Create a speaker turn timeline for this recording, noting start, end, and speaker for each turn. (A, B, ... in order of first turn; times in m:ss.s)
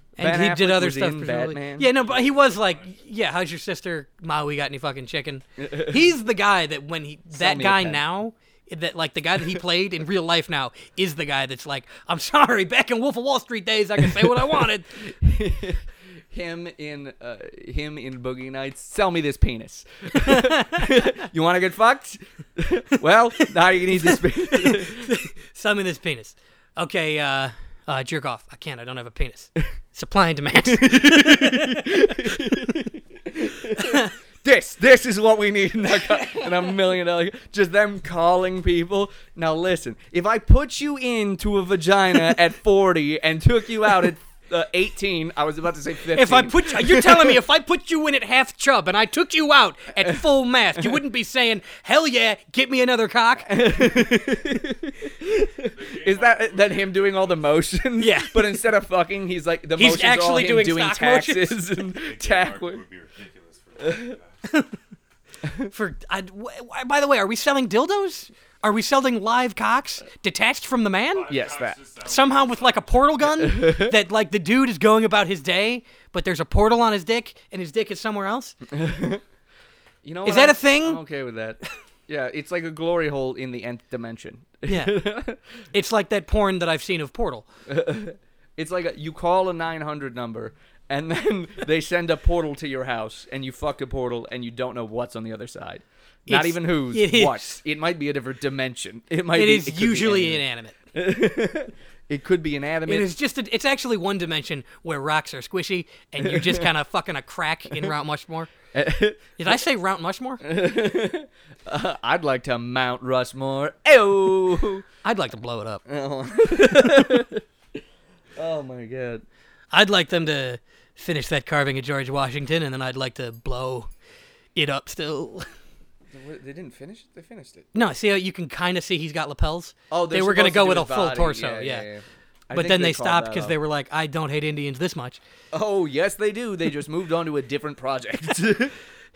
0:00.2-0:15.1 A
0:00.2-0:02.0 B
0:01.9-0:03.1 C
0:05.6-0:06.0 B
0:07.3-0:08.0 B
0:14.1-0:25.2 B
0:20.2-0:20.9 A
0:23.4-0:32.4 A
0:30.6-0:47.4 B
0:33.8-0:34.1 A
0:46.1-0:53.8 A
0:53.4-1:02.8 B
0:55.6-0:57.7 C
0:58.0-0:58.6 A
0:59.8-1:01.6 A
1:01.9-1:04.4 C
1:03.8-1:04.2 B
1:04.5-1:04.7 A
1:05.6-1:11.4 A
1:11.1-1:13.3 C
1:11.3-1:11.8 B
1:12.0-1:18.6 A
1:13.4-1:14.0 B
1:18.6-1:19.2 B
1:20.0-1:25.4 B
1:20.2-1:21.0 A
1:24.7-1:25.0 A
1:25.7-1:27.5 A
1:27.7-1:43.1 B
1:36.3-1:37.6 A
1:39.3-1:40.8 A
1:42.9-1:48.5 A
1:46.2-1:46.7 B
1:48.7-1:49.6 B
1:49.4-1:50.4 A
1:50.4-1:54.8 B
1:55.0-1:55.8 A
1:55.9-1:57.4 B
1:58.4-1:59.2 B
1:59.7-2:03.9 A
2:04.6-2:05.5 A
2:06.1-2:07.7 B
2:07.7-2:11.9 A
2:09.9-2:13.6 B
2:12.5-2:15.2 A
2:15.5-2:18.8 B